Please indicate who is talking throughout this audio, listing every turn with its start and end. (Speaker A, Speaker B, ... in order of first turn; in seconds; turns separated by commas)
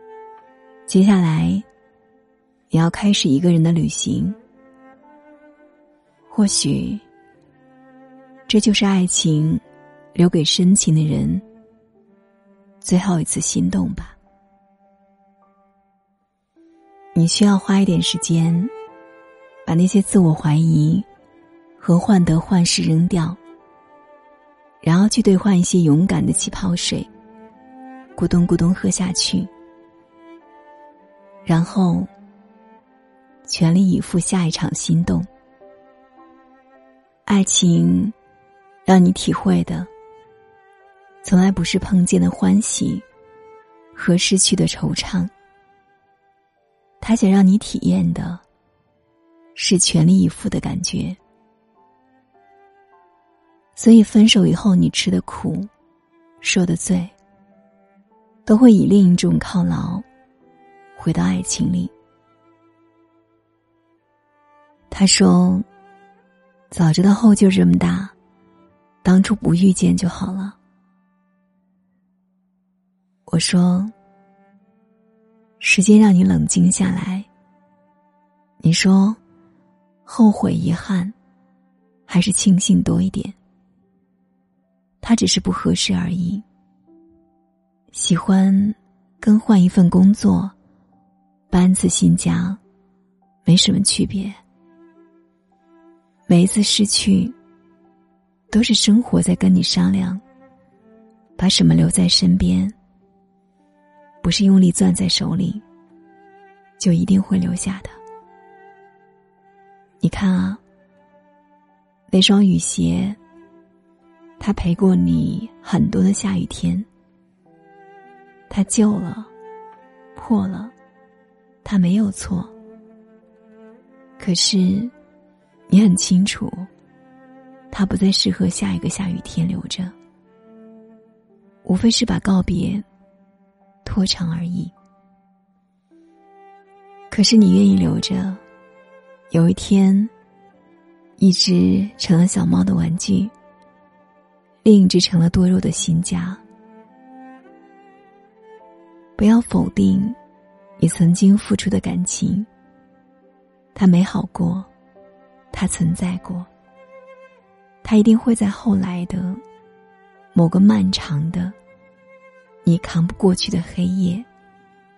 Speaker A: 0.9-1.6, Speaker A: 2.7-4.4, Speaker A: 6.3-7.0, Speaker A: 8.5-9.6, Speaker A: 10.1-11.4, Speaker A: 12.8-14.2, Speaker A: 17.1-18.7, Speaker A: 19.6-21.1, Speaker A: 21.8-23.4, Speaker A: 24.8-27.1, Speaker A: 28.1-29.5, Speaker A: 31.4-32.1, Speaker A: 33.4-35.3, Speaker A: 37.2-38.1, Speaker A: 38.8-39.9, Speaker A: 41.2-43.0, Speaker A: 43.9-45.3, Speaker A: 47.0-48.4, Speaker A: 49.5-51.2, Speaker A: 53.8-55.7, Speaker A: 56.4-57.1, Speaker A: 58.5-60.0, Speaker A: 61.0-61.9, Speaker A: 64.9-65.7, Speaker A: 66.7-68.1, Speaker A: 69.0-70.6, Speaker A: 73.3-73.9, Speaker A: 75.6-77.3, Speaker A: 78.6-79.2, Speaker A: 80.0-81.1, Speaker A: 82.1-83.3, Speaker A: 85.0-86.4, Speaker A: 87.9-90.5, Speaker A: 91.5-92.6, Speaker A: 93.4-94.4, Speaker A: 96.3-97.3, Speaker A: 98.5-100.2, Speaker A: 101.4-102.8, Speaker A: 104.2-105.6, Speaker A: 106.8-108.0, Speaker A: 110.0-110.6, Speaker A: 112.1-113.2, Speaker A: 114.4-116.9, Speaker A: 118.5-119.3, Speaker A: 120.2-120.7, Speaker A: 121.6-122.5, Speaker A: 124.2-124.9, Speaker A: 125.7-126.7, Speaker A: 127.7-129.9, Speaker A: 131.6-132.8, Speaker A: 133.8-134.7, Speaker A: 137.1-138.4, Speaker A: 139.3-140.1, Speaker A: 141.2-143.3, Speaker A: 144.6-146.4, Speaker A: 149.2-150.2, Speaker A: 150.8-152.5, Speaker A: 153.7-154.7, Speaker A: 155.5-156.5, Speaker A: 157.8-159.4, Speaker A: 160.3-161.6, Speaker A: 162.6-164.3